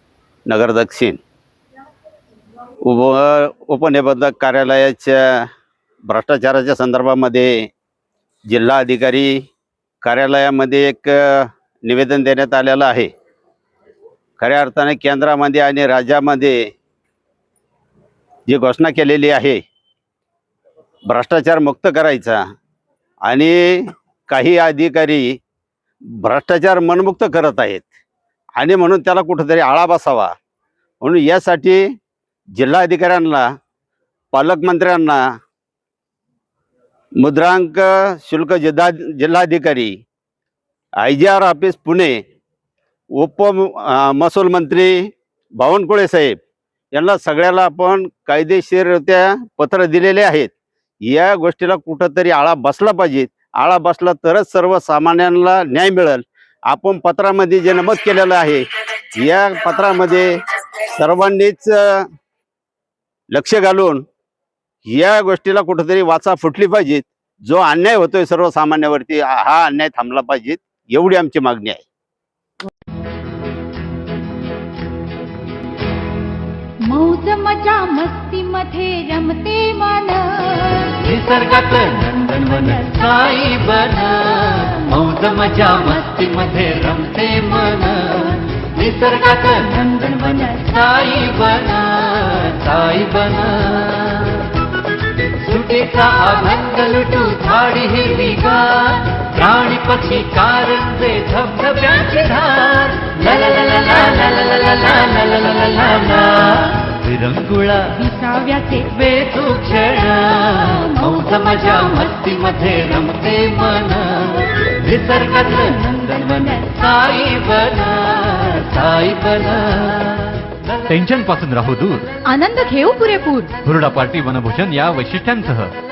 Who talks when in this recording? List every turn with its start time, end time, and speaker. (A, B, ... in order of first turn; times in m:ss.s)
0:00.5-0:01.2 A
0:02.8-0:05.4 A
0:06.1-0:07.5 A
0:08.5-0:09.3 A
0:10.0-0:13.1 A
0:14.4-0:16.6 A
0:18.5-0:19.6 A
0:21.1-0:22.4 A
0:23.3-0:25.3 A
0:26.2-0:27.9 A
0:28.6-0:30.3 A
0:31.0-0:31.8 A
0:32.6-0:33.4 A
0:34.3-0:35.2 A
0:37.2-0:39.9 A
0:41.0-0:42.2 A
0:43.2-0:45.1 A
0:45.6-0:46.4 A
0:47.0-0:50.5 A
0:51.1-0:58.6 A
0:59.2-1:00.3 A
1:00.8-1:02.0 A
1:03.3-1:04.0 A
1:04.9-1:11.8 A
1:16.8-1:20.8 B
1:20.9-1:34.6 C
1:35.4-1:48.1 C
1:48.1-1:48.8 B
1:48.8-2:00.7 C
2:00.9-2:02.1 D
2:02.3-2:03.5 B
2:03.6-2:05.7 D